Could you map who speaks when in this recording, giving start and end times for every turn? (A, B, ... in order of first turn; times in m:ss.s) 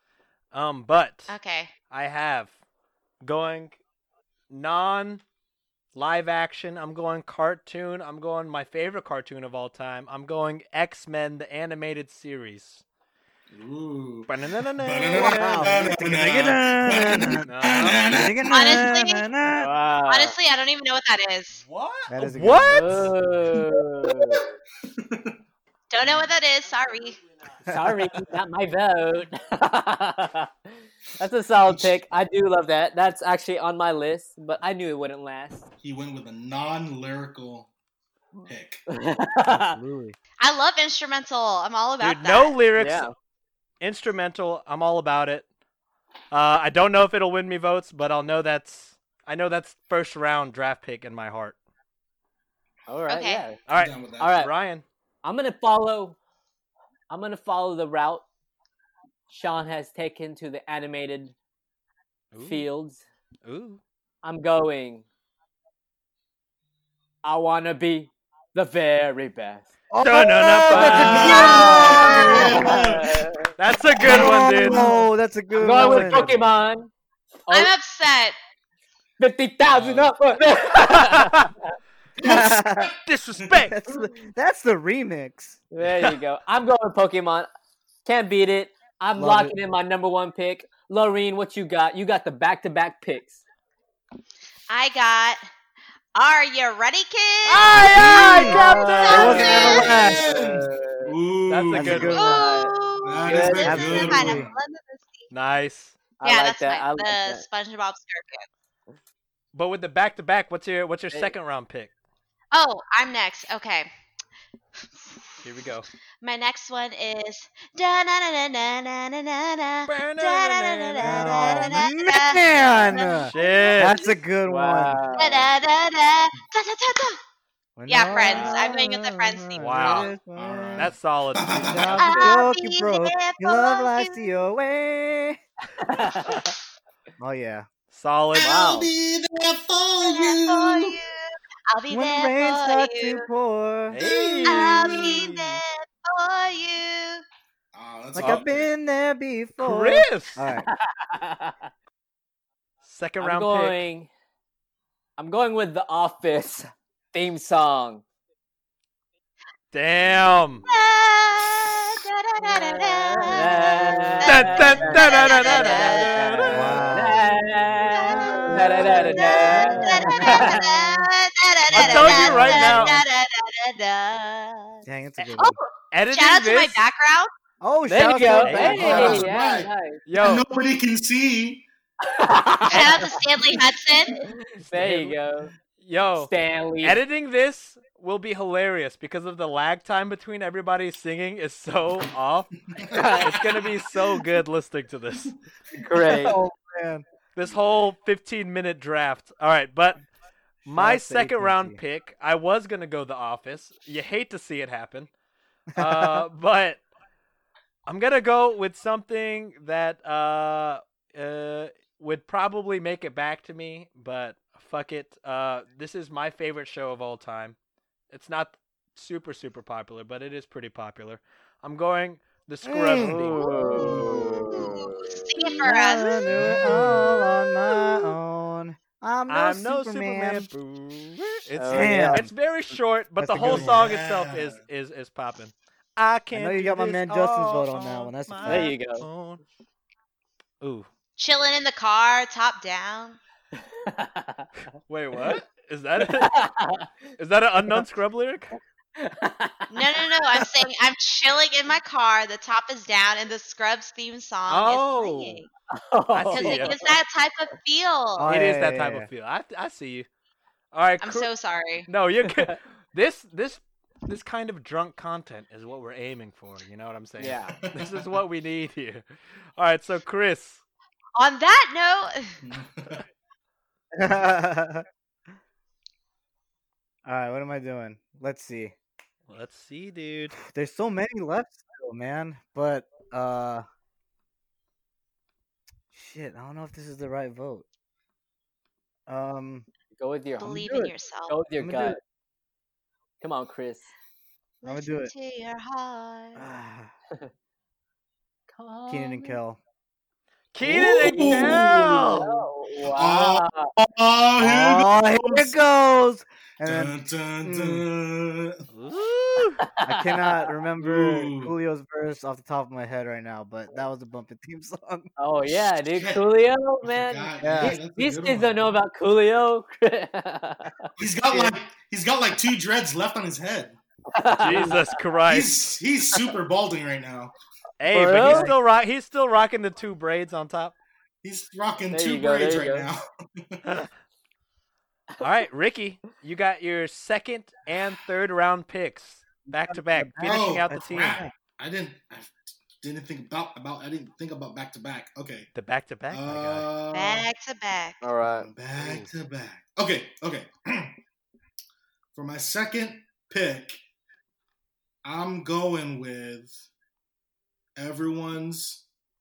0:00.5-0:01.3 A
0:01.3-0:01.7 B
0:01.9-0:02.5 A
0:03.2-0:03.8 A
0:04.5-0:05.2 A
0:06.0-0:12.8 A
0:13.5-0:18.6 C
0:14.3-0:15.7 A
0:15.1-0:17.5 D
0:17.4-0:18.1 A
0:18.1-0:19.7 D
0:18.5-0:19.2 B
0:19.6-0:20.4 E
0:20.1-0:21.6 B
0:21.6-0:23.1 A
0:22.1-0:23.1 D
0:22.7-0:24.4 E
0:24.1-0:25.4 C
0:25.9-0:27.2 B
0:27.7-0:30.5 E
0:31.2-0:35.6 E
0:31.7-0:32.0 C
0:35.8-0:37.7 C
0:38.5-0:38.8 C
0:38.9-0:39.8 E
0:39.4-0:40.2 D
0:40.4-0:42.5 B
0:42.0-0:43.1 A
0:42.8-0:43.1 E
0:43.8-0:45.5 A
0:46.3-0:51.6 A
0:52.9-0:53.6 E
0:53.1-0:53.4 B
0:53.7-0:54.8 A
0:53.8-0:54.4 C
0:54.2-0:54.5 E
0:55.2-0:56.2 E
0:57.1-0:58.2 E
0:59.3-1:01.3 E
1:02.3-1:02.7 A
1:02.4-1:03.0 E
1:03.4-1:03.8 A
1:04.2-1:05.0 E
1:07.2-1:09.7 E
1:09.9-1:12.6 D
1:10.0-1:11.6 A
1:10.7-1:13.5 E
1:10.9-1:13.2 C
1:11.4-1:12.5 B
1:13.6-1:14.9 A
1:14.0-1:15.0 C
1:14.0-1:16.4 D
1:15.5-1:16.9 E
1:15.9-1:16.3 A
1:17.5-1:17.7 E
1:17.5-1:18.4 B
1:19.2-1:21.5 E
1:19.7-1:20.1 A
1:20.8-1:21.5 A
1:22.2-1:22.9 D
1:22.2-1:23.0 C
1:23.1-1:23.8 A
1:23.7-1:25.6 D
1:25.7-1:27.5 E
1:25.8-1:26.2 A
1:28.0-1:33.4 E
1:29.2-1:29.6 D
1:34.7-1:35.5 B
1:36.2-1:40.1 B
1:37.5-1:39.9 A
1:37.8-1:40.3 D
1:38.4-1:41.2 E
1:39.1-1:42.2 C
1:41.5-1:42.2 A
1:41.7-1:42.5 D
1:42.1-1:42.7 E
1:42.1-1:45.3 B
1:43.0-1:44.6 C
1:43.2-1:43.9 E
1:43.6-1:44.5 D
1:45.3-1:46.0 A
1:46.2-1:47.4 E
1:46.2-1:48.5 B
1:49.5-1:51.9 A
1:52.5-1:53.9 B
1:55.4-1:55.9 A
1:56.2-2:04.1 B
1:59.9-2:01.8 A
2:01.0-2:05.2 D
2:03.3-2:04.0 A
2:04.4-2:05.4 E
2:05.2-2:07.2 B
2:07.8-2:10.9 D
2:07.9-2:10.1 B
2:08.1-2:08.7 E
2:09.6-2:10.2 A
2:10.2-2:12.1 C
2:10.8-2:12.0 A
2:11.5-2:15.4 D
2:12.0-2:14.3 B
2:15.8-2:16.5 E
2:17.2-2:17.7 D
2:17.9-2:18.6 A
2:18.4-2:21.0 C
2:18.4-2:18.9 E
2:20.0-2:23.2 B
2:21.9-2:24.0 D
2:23.9-2:25.4 A
2:24.4-2:27.2 B
2:24.5-2:25.3 C
2:27.7-2:28.7 C
2:28.2-2:30.7 D
2:28.2-2:28.5 A
2:29.6-2:30.5 A
2:30.7-2:31.6 E
2:32.8-2:33.8 A
2:33.2-2:34.1 E
2:35.2-2:38.0 E
2:39.7-2:40.6 A
2:40.7-2:46.6 B
2:42.4-2:51.0 E
2:44.3-2:46.9 A
2:46.5-2:50.6 D
2:47.9-2:57.3 B
2:49.6-2:50.0 A
2:51.7-2:53.0 A
2:51.9-2:52.8 E
2:54.8-2:55.6 D
2:55.9-2:56.8 A
2:57.6-2:59.2 D
2:57.9-3:00.0 E
2:58.4-2:59.3 A
2:58.6-3:01.7 C
3:00.1-3:00.4 A
3:02.1-3:03.1 E
3:02.7-3:04.2 B
3:02.7-3:03.0 A
3:04.5-3:05.5 E
3:04.6-3:05.2 A
3:05.8-3:06.3 A
3:06.2-3:07.0 E
3:06.8-3:15.3 A
3:12.7-3:13.7 C
3:12.9-3:13.3 E
3:15.7-3:16.4 E
3:16.0-3:17.0 D
3:17.4-3:20.0 A
3:20.7-3:25.1 A
3:20.7-3:21.8 D
3:25.7-3:26.2 D
3:25.8-3:26.8 A
3:27.9-3:37.6 A
3:38.1-3:43.5 A
3:42.6-3:44.1 D
3:43.0-3:45.2 E
3:43.8-3:44.6 C
3:44.9-3:46.3 B
3:45.5-3:50.5 D
3:46.4-3:47.3 C
3:49.3-3:59.4 A
3:51.6-3:52.2 E
3:51.7-3:52.3 D
3:53.2-3:53.8 D
3:53.4-3:54.6 C
3:56.3-3:58.7 D
3:58.4-3:59.1 E
4:00.6-4:00.9 A
4:01.2-4:03.2 B
4:03.7-4:04.5 E
4:04.9-4:06.4 A
4:06.0-4:06.9 E
4:07.2-4:08.5 A
4:09.0-4:10.0 E
4:09.7-4:15.5 B
4:14.5-4:15.4 A
4:15.7-4:17.0 E
4:16.1-4:16.8 A
4:16.3-4:18.3 B
4:18.2-4:19.1 D
4:18.3-4:20.1 A
4:20.7-4:21.3 A
4:21.0-4:21.9 B
4:21.9-4:29.0 A
4:27.2-4:27.6 E
4:27.6-4:28.1 C
4:29.6-4:30.6 A
4:31.2-4:32.4 B
4:32.4-4:33.0 C
4:33.9-4:34.8 D
4:37.1-4:38.7 D
4:39.3-4:40.4 A
4:40.4-4:43.6 D
4:45.9-4:47.7 D
4:49.1-4:49.7 D
4:50.0-4:52.0 E
4:50.4-4:51.4 B
4:51.6-4:52.0 D
4:53.2-4:53.9 E
4:54.6-4:56.4 B
4:54.6-4:55.1 D
4:56.4-4:56.9 D
4:58.5-4:59.4 E
4:58.9-4:59.6 D
5:00.5-5:02.3 A
5:00.6-5:02.3 C
5:00.8-5:03.7 E
5:02.9-5:05.6 C
5:04.4-5:07.8 D
5:06.6-5:08.6 C
5:08.7-5:09.6 A
5:09.8-5:10.5 E
5:09.8-5:15.1 D
5:10.8-5:11.5 C
5:15.2-5:21.5 E
5:15.6-5:16.3 C
5:16.8-5:18.6 C
5:17.4-5:17.8 D
5:21.0-5:23.8 C
5:24.1-5:24.9 E
5:24.4-5:25.7 A
5:25.3-5:27.3 C
5:27.8-5:30.8 A
5:27.9-5:28.5 E
5:28.2-5:28.5 D
5:31.2-5:33.6 C
5:31.9-5:32.9 E
5:35.2-5:41.2 A
5:39.7-5:41.3 D
5:40.2-5:45.5 C
5:45.6-5:46.7 A
5:46.1-5:47.3 C
5:46.9-5:48.0 B
5:48.0-5:48.5 E
5:48.2-5:51.0 C
5:48.8-5:49.1 A
5:52.1-5:53.8 C
5:55.0-5:56.6 C
5:57.8-5:58.8 C